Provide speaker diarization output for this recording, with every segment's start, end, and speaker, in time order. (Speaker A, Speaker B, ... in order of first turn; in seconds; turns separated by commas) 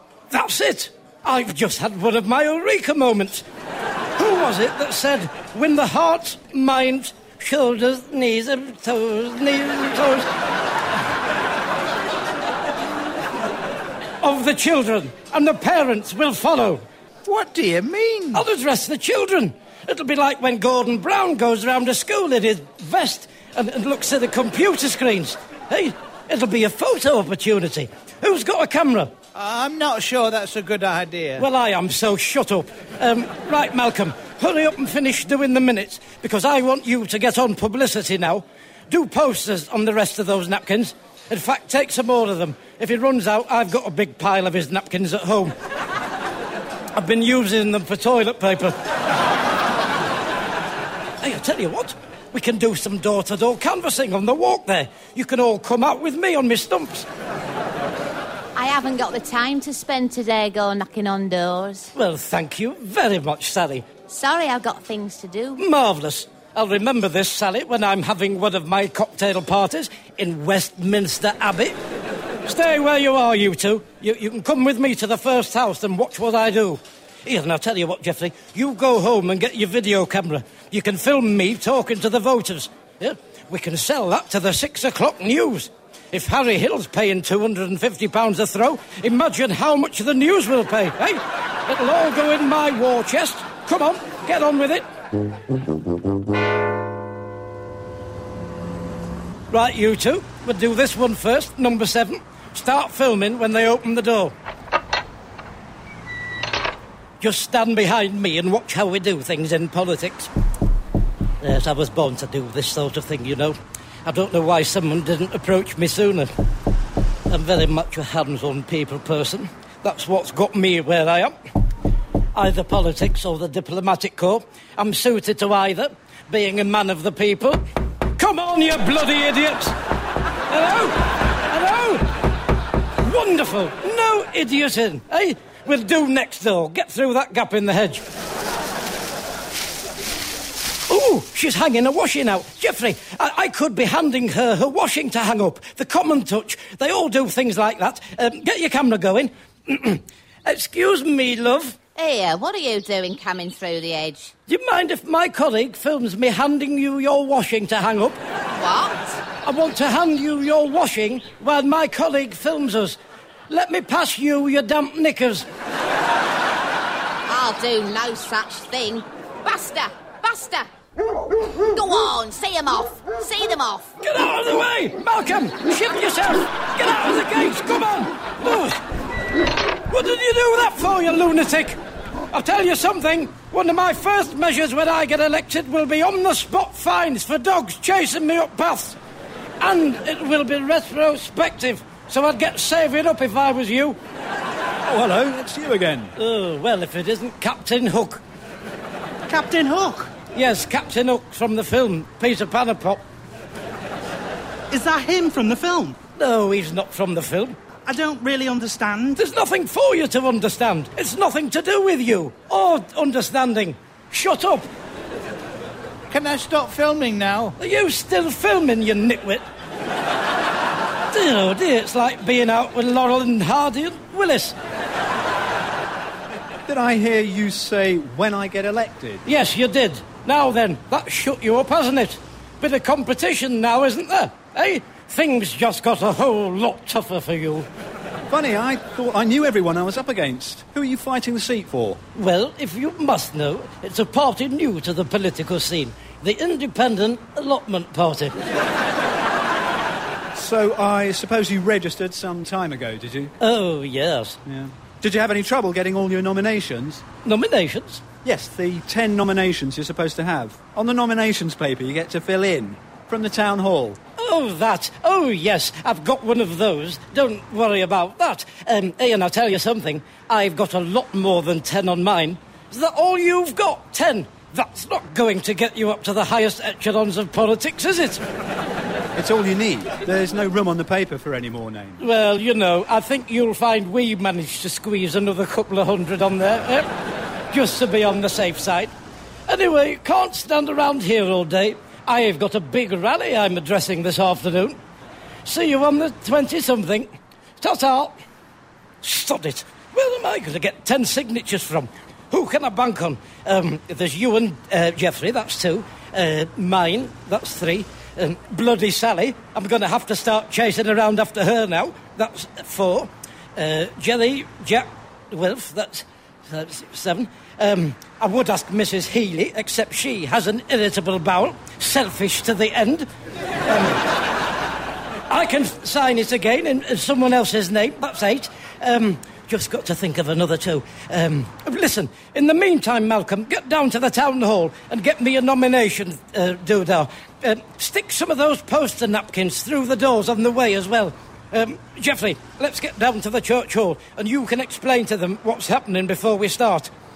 Speaker A: 0.3-3.5, Speaker A: 4.2-10.3, Speaker A: 14.2-16.8, Speaker B: 17.2-18.4, Speaker A: 18.3-29.1, Speaker B: 29.3-31.5, Speaker A: 31.4-45.5, Speaker A: 47.0-48.7, Speaker A: 51.2-57.1, Speaker C: 58.6-61.9, Speaker A: 61.9-63.9, Speaker C: 64.1-65.6, Speaker A: 65.6-71.8, Speaker A: 72.5-94.8, Speaker A: 99.5-104.3, Speaker A: 107.2-110.3, Speaker A: 111.4-116.3, Speaker A: 117.3-121.3, Speaker A: 122.3-127.6, Speaker A: 128.2-129.8, Speaker A: 130.5-132.1, Speaker A: 133.0-138.0, Speaker A: 140.9-151.8, Speaker C: 152.0-154.3, Speaker A: 154.5-158.2, Speaker C: 158.5-159.2, Speaker A: 159.4-163.0, Speaker A: 163.5-165.5, Speaker C: 167.3-170.7, Speaker C: 171.7-173.9, Speaker A: 174.0-178.8, Speaker A: 179.9-181.8, Speaker A: 182.3-189.0, Speaker A: 189.6-194.0, Speaker D: 194.8-196.2, Speaker A: 196.2-198.2, Speaker E: 199.3-200.1, Speaker A: 200.3-203.0, Speaker E: 204.7-206.0, Speaker A: 206.2-207.6, Speaker E: 207.8-209.2, Speaker A: 209.2-214.7, Speaker B: 216.1-217.6, Speaker A: 217.6-219.4, Speaker A: 221.1-224.6, Speaker D: 226.7-229.2, Speaker A: 229.3-237.7, Speaker D: 238.3-242.0, Speaker A: 242.2-248.4, Speaker D: 250.3-253.3, Speaker A: 253.4-254.4, Speaker D: 254.5-257.1, Speaker A: 257.2-258.0, Speaker D: 258.2-264.0, Speaker A: 264.2-278.2, Speaker D: 279.2-282.0, Speaker A: 282.0-286.9, Speaker A: 287.5-288.9, Speaker A: 289.5-294.8, Speaker A: 295.4-298.2, Speaker A: 299.0-323.1, Speaker A: 323.6-324.0, Speaker A: 325.3-346.9